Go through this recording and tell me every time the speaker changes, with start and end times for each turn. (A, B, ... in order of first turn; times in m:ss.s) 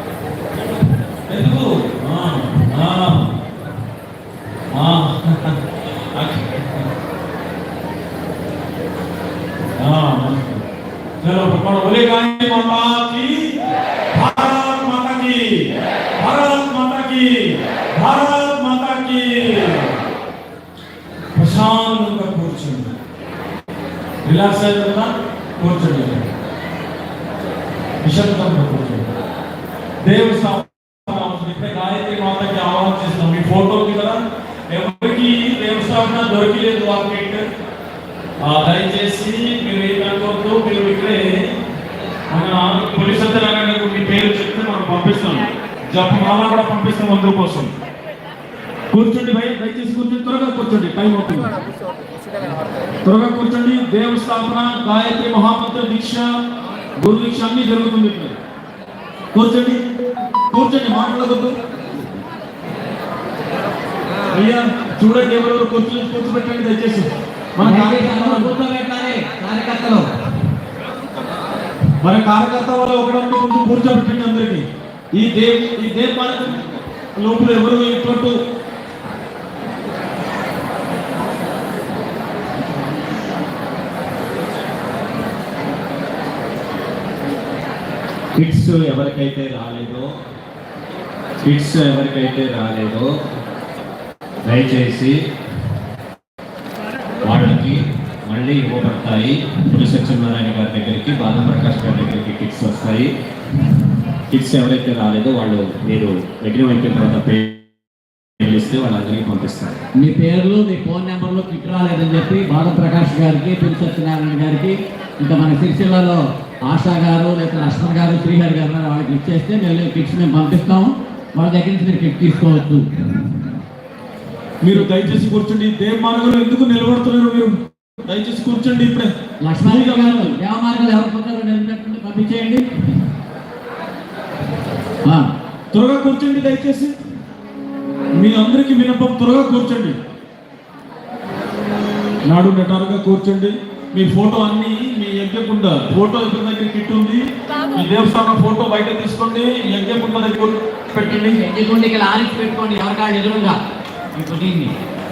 0:01.3-0:03.3 A
0:04.7-0:06.9 A
0:09.8-0:10.6 A
0:11.2-0:13.5 A
0:14.1-0:15.6 A
0:16.2-0:17.3 A
0:18.0-0:20.0 A
0:21.4-0:22.9 A
0:24.2-0:26.3 A
0:28.0-0:29.1 A
0:30.0-0:37.5 A
0:38.4-0:41.5 A
0:42.3-0:47.7 A
0:48.9-0:51.5 A
0:53.0-0:56.3 A
0:57.0-0:58.4 A
0:59.3-0:59.8 A
1:00.5-1:01.6 A
1:04.3-1:08.5 A
1:07.6-1:10.1 B
1:12.0-1:16.6 A
1:17.2-1:18.4 A
1:28.4-1:30.1 C
1:31.4-1:33.1 C
1:34.5-1:35.2 C
1:37.2-1:43.1 C
1:44.3-1:47.6 C
1:48.4-1:49.8 C
1:50.0-2:02.9 B
2:04.6-2:09.1 A
2:09.4-2:12.7 B
2:09.6-2:10.4 A
2:15.7-2:17.0 A
2:18.2-2:20.0 A
2:22.2-2:31.4 A
2:31.0-2:33.6 B
2:34.2-2:34.7 B